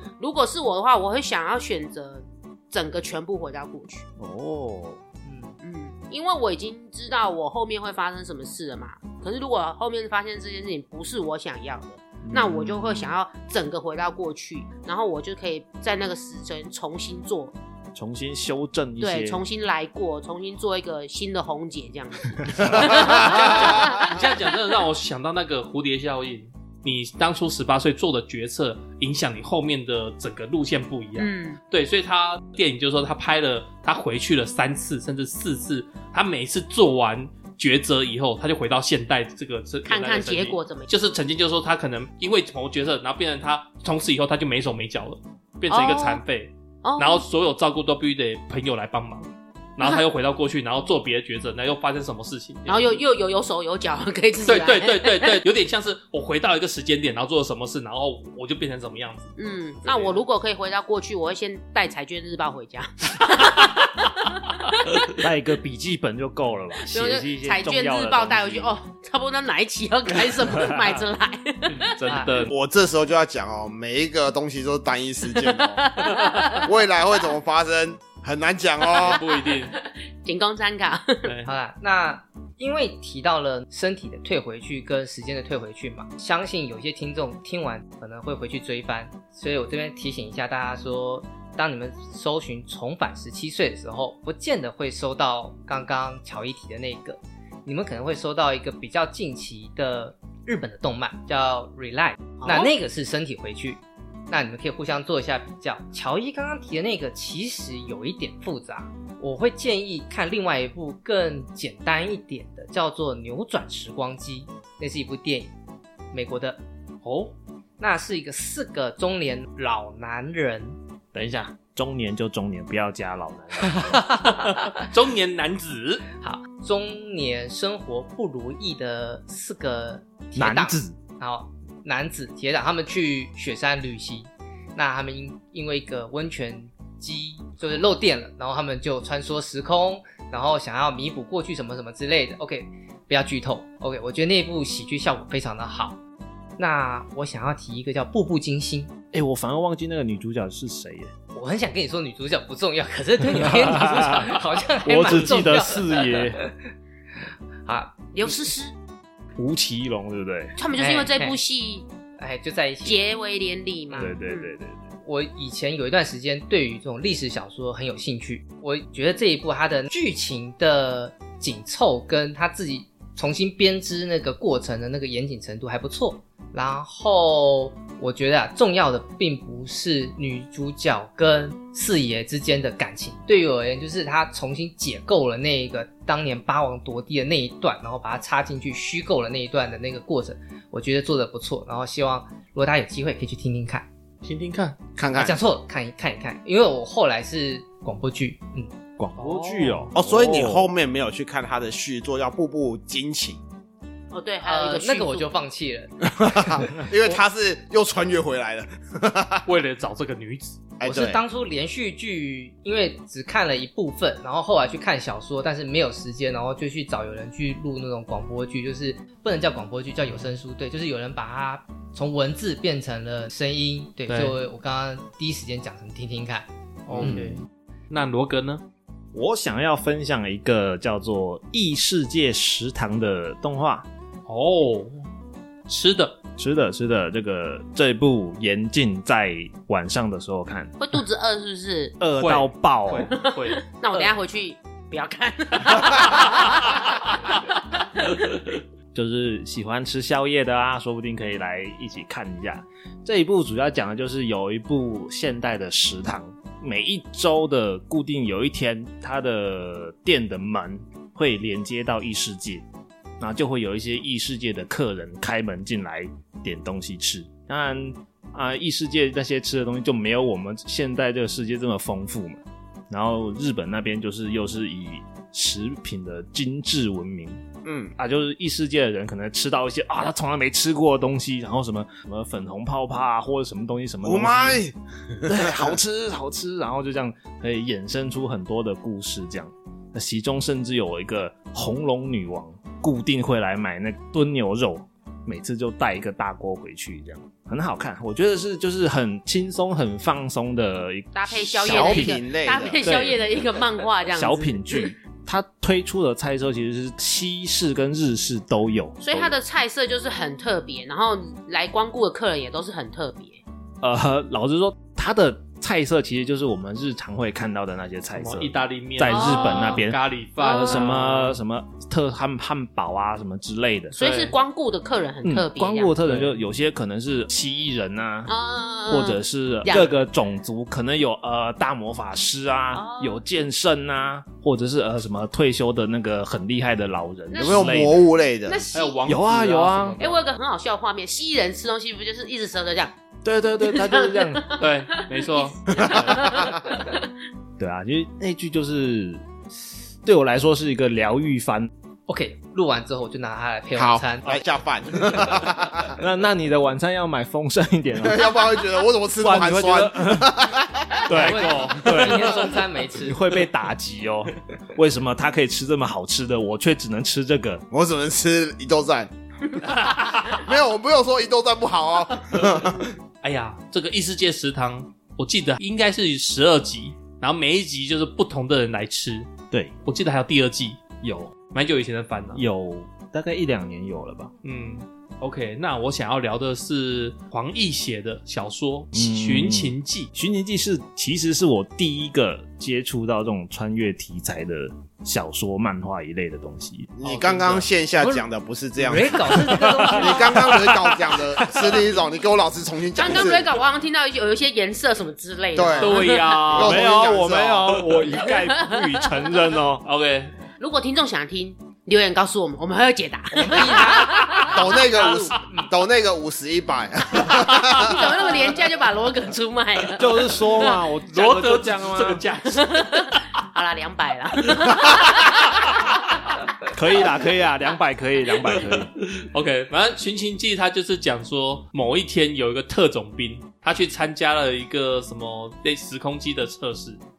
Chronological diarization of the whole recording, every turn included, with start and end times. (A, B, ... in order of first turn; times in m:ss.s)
0:00.2-0:04.0 A
0:04.2-0:05.0 B
0:05.2-0:05.6 C
0:05.6-0:17.5 A
0:12.2-0:13.2 B
0:17.9-0:19.4 B
0:19.0-0:24.2 A
0:22.5-0:22.8 B
0:22.6-0:23.8 D
0:22.9-0:53.0 E
0:31.2-0:31.6 A
0:39.8-0:40.9 A
0:45.7-0:46.2 A
0:46.8-0:47.2 A
0:52.7-0:55.4 A
0:54.4-0:59.3 E
0:59.4-1:05.1 A
0:59.8-1:00.2 E
1:05.2-1:08.7 B
1:06.8-1:11.9 A
1:10.5-1:10.9 B
1:11.7-1:12.5 E
1:12.1-1:12.5 C
1:12.5-1:15.8 D
1:15.4-1:16.7 A
1:16.4-1:16.6 E
1:16.6-1:19.2 D
1:18.9-1:19.7 E
1:19.7-1:21.3 A
1:21.4-1:55.5 C
1:42.4-1:42.7 A
1:56.1-1:56.6 C
1:57.0-1:57.3 E
1:57.8-2:00.8 C
2:01.1-2:04.0 B
2:04.2-2:04.7 C
2:04.2-2:06.0 E
2:06.2-2:26.0 C
2:10.4-2:11.0 B
2:26.6-2:28.9 C
2:29.1-2:31.1 B
2:31.3-2:36.6 C
2:33.4-2:36.4 B
2:37.6-2:38.0 C
2:38.1-2:38.7 A
2:39.4-2:40.5 B
2:40.6-2:41.9 A
2:40.8-2:41.4 C
2:42.2-2:43.0 C
2:42.8-2:44.5 A
2:43.9-2:44.2 C
2:44.0-2:44.9 B
2:45.0-3:13.9 C
3:14.2-3:14.8 E
3:15.0-3:15.4 D
3:15.2-3:18.7 C
3:19.0-3:20.7 B
3:19.2-3:19.9 E
3:19.9-3:23.4 D
3:24.1-3:25.3 A
3:24.4-3:25.9 C
3:26.2-3:29.4 D
3:29.4-3:30.6 E
3:30.8-3:31.2 D
3:30.8-3:47.3 C
3:44.1-3:44.4 E
3:46.9-3:48.6 E
3:49.1-3:53.9 B
3:54.3-3:55.0 E
3:55.7-3:56.2 E
3:56.4-4:00.7 B
4:00.8-4:02.0 A
4:02.0-4:03.1 B
4:02.2-4:03.6 E
4:03.1-4:08.3 A
4:05.7-4:06.6 E
4:08.9-4:22.6 B
4:23.2-4:37.4 B
4:37.6-4:37.9 D
4:38.0-4:44.6 B
4:44.0-4:45.7 D
4:45.2-5:02.2 B
5:01.1-5:04.9 A
5:01.6-5:02.8 D
5:02.8-5:03.2 B
5:04.1-5:09.3 B
5:09.0-5:13.4 A
5:13.8-5:23.9 B
5:18.1-5:21.4 E
5:19.0-5:19.8 A
5:20.4-5:20.8 A
5:23.9-5:26.0 A
5:24.0-5:24.3 E
5:25.2-5:28.3 B
5:26.0-5:26.4 E
5:28.3-5:30.0 A
5:28.9-5:38.0 B
5:32.7-5:33.2 A
5:37.3-5:39.0 A
5:37.4-5:38.6 D
5:38.7-5:40.2 E
5:39.0-5:40.0 B
5:40.0-5:42.9 A
5:43.2-5:44.4 B
5:43.6-5:47.1 A
5:44.6-5:46.3 E
5:45.7-5:46.6 D
5:47.6-5:49.2 B
5:50.0-5:51.7 B
5:52.1-5:54.4 C
5:53.8-5:56.0 D
5:56.0-5:58.3 B
5:58.0-6:01.1 D
5:59.1-6:00.4 B
6:01.0-6:02.5 B
6:01.1-6:02.4 E
6:01.1-6:03.2 C
6:03.0-6:07.6 B
6:07.7-6:09.1 D
6:09.7-6:10.4 E
6:10.3-6:12.9 D
6:13.2-6:19.3 E
6:19.8-6:20.8 E
6:21.0-6:21.4 B
6:21.5-6:22.4 E
6:22.3-6:24.3 B
6:24.4-6:30.1 E
6:28.9-6:36.9 B
6:37.0-6:43.6 D
6:37.1-6:38.2 C
6:38.8-6:40.7 C
6:39.2-6:41.8 B
6:43.0-6:46.4 A
6:45.5-6:48.0 D
6:45.8-6:46.8 E
6:46.6-6:49.8 B
6:48.1-6:49.3 A
6:49.8-6:50.3 E
6:50.6-6:54.6 A
6:53.3-6:55.7 C
6:54.0-6:54.7 E
6:54.5-6:58.2 D
6:57.5-7:00.8 A
7:00.0-7:02.2 B
7:01.1-7:03.1 E
7:02.5-7:05.7 A
7:06.7-7:08.9 B
7:08.4-7:17.0 E